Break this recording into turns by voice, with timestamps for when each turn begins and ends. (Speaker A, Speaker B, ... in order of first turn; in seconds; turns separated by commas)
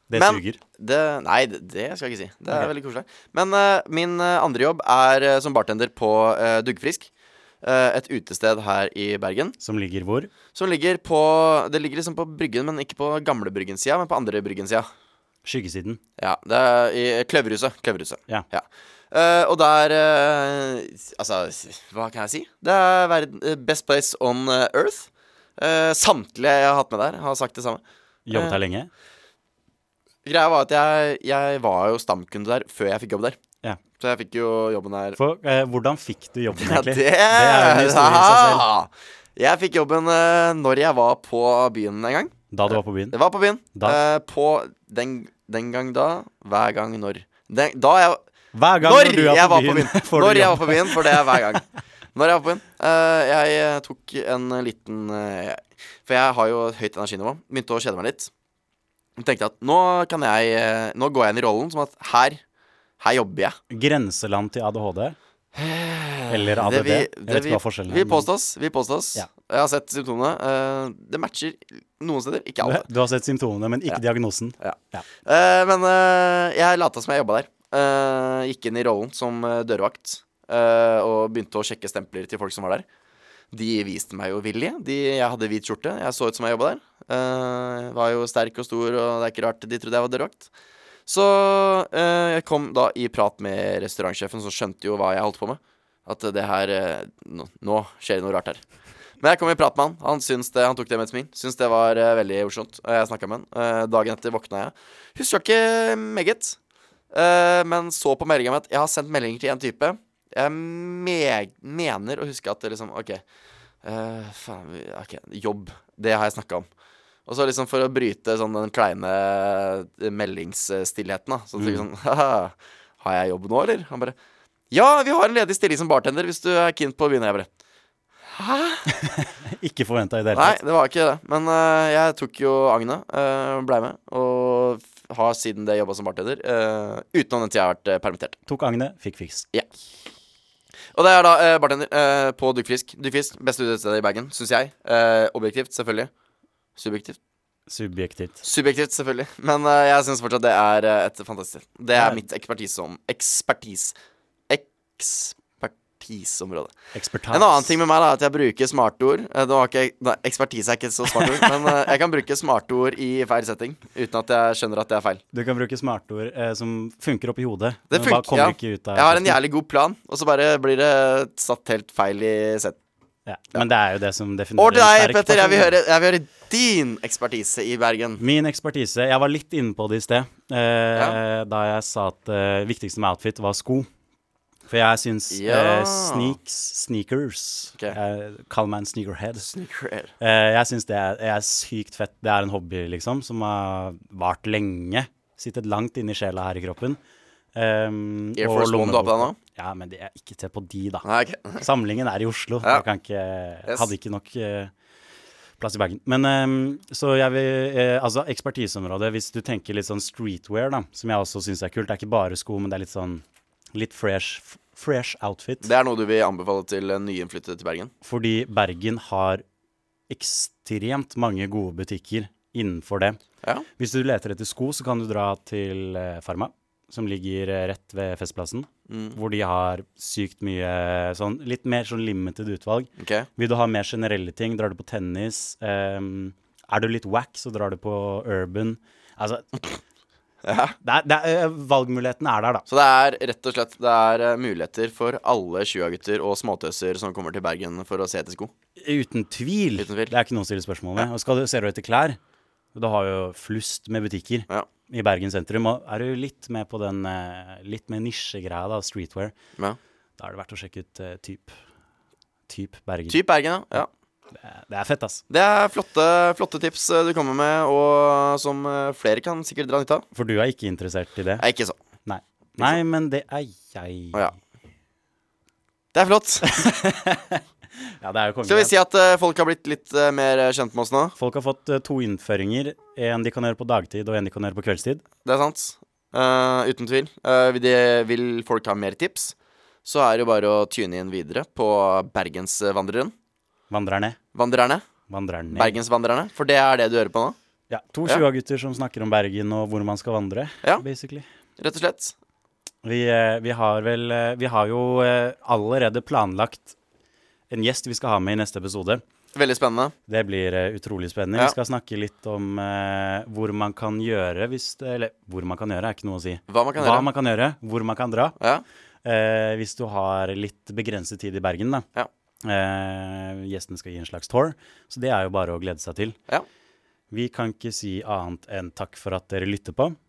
Speaker A: 0.1-0.6, Speaker B: 0.1-7.1, Speaker B: 7.6-9.6, Speaker A: 9.6-10.3, Speaker B: 10.5-14.9, Speaker A: 15.4-16.0, Speaker B: 16.2-27.8, Speaker A: 28.3-28.9, Speaker B: 28.3-28.6, Speaker B: 30.2-33.4, Speaker B: 34.0-35.2, Speaker A: 35.2-38.6, Speaker B: 36.5-48.2, Speaker A: 42.5-43.2, Speaker A: 43.8-44.0, Speaker A: 48.5-51.6, Speaker B: 48.8-51.6, Speaker B: 52.1-58.3, Speaker B: 59.2-62.4, Speaker B: 63.0-63.6, Speaker A: 63.7-65.2, Speaker B: 65.5-72.9, Speaker A: 66.3-68.3, Speaker A: 72.6-75.0, Speaker B: 74.6-82.8, Speaker B: 83.5-90.5, Speaker B: 91.1-98.6, Speaker B: 99.2-106.6, Speaker B: 107.1-113.2, Speaker B: 113.8-116.7, Speaker B: 117.3-124.2, Speaker A: 121.6-121.8, Speaker B: 124.7-127.5, Speaker B: 128.3-128.9, Speaker A: 128.9-130.6, Speaker B: 130.3-138.4, Speaker A: 138.5-139.5, Speaker B: 140.9-146.1, Speaker B: 146.8-147.2, Speaker A: 147.7-148.4, Speaker B: 148.4-153.9, Speaker A: 151.9-152.2, Speaker B: 154.5-156.7, Speaker A: 156.9-157.8, Speaker B: 157.3-165.2, Speaker A: 161.1-161.8, Speaker A: 165.3-169.4, Speaker B: 167.9-172.8, Speaker A: 173.3-175.8, Speaker B: 174.6-178.2, Speaker A: 178.2-183.9, Speaker A: 184.7-189.5, Speaker B: 185.3-186.4, Speaker B: 189.4-190.1, Speaker A: 190.2-197.0, Speaker A: 197.6-201.1, Speaker B: 198.4-199.4, Speaker B: 201.0-201.7, Speaker A: 201.6-204.7, Speaker B: 203.7-203.9, Speaker A: 205.6-213.2, Speaker A: 213.8-215.7, Speaker B: 215.6-217.9, Speaker A: 218.0-219.4, Speaker A: 220.1-223.2, Speaker A: 223.8-239.8, Speaker B: 228.9-229.2, Speaker B: 233.0-233.3, Speaker B: 240.4-240.8, Speaker A: 240.8-242.7, Speaker B: 242.7-248.5, Speaker A: 248.8-252.2, Speaker B: 249.8-250.2, Speaker A: 252.7-259.4, Speaker A: 260.2-261.5, Speaker A: 262.5-263.2, Speaker B: 263.1-263.9, Speaker A: 264.3-265.2, Speaker B: 265.3-270.1, Speaker A: 270.1-271.4, Speaker B: 271.4-271.8, Speaker A: 272.1-274.3, Speaker B: 275.9-276.5, Speaker A: 276.4-278.7, Speaker B: 278.4-281.2, Speaker A: 281.2-285.0, Speaker B: 285.2-289.3, Speaker B: 289.9-293.1, Speaker A: 293.7-294.2, Speaker B: 294.3-294.8, Speaker A: 295.1-295.8, Speaker B: 295.5-297.4, Speaker A: 297.7-301.3, Speaker B: 301.6-302.1, Speaker A: 302.8-306.7, Speaker A: 307.5-309.0, Speaker B: 309.4-309.9, Speaker A: 310.1-318.4, Speaker B: 316.5-317.1, Speaker A: 319.0-321.9, Speaker A: 322.4-326.2, Speaker A: 327.1-330.0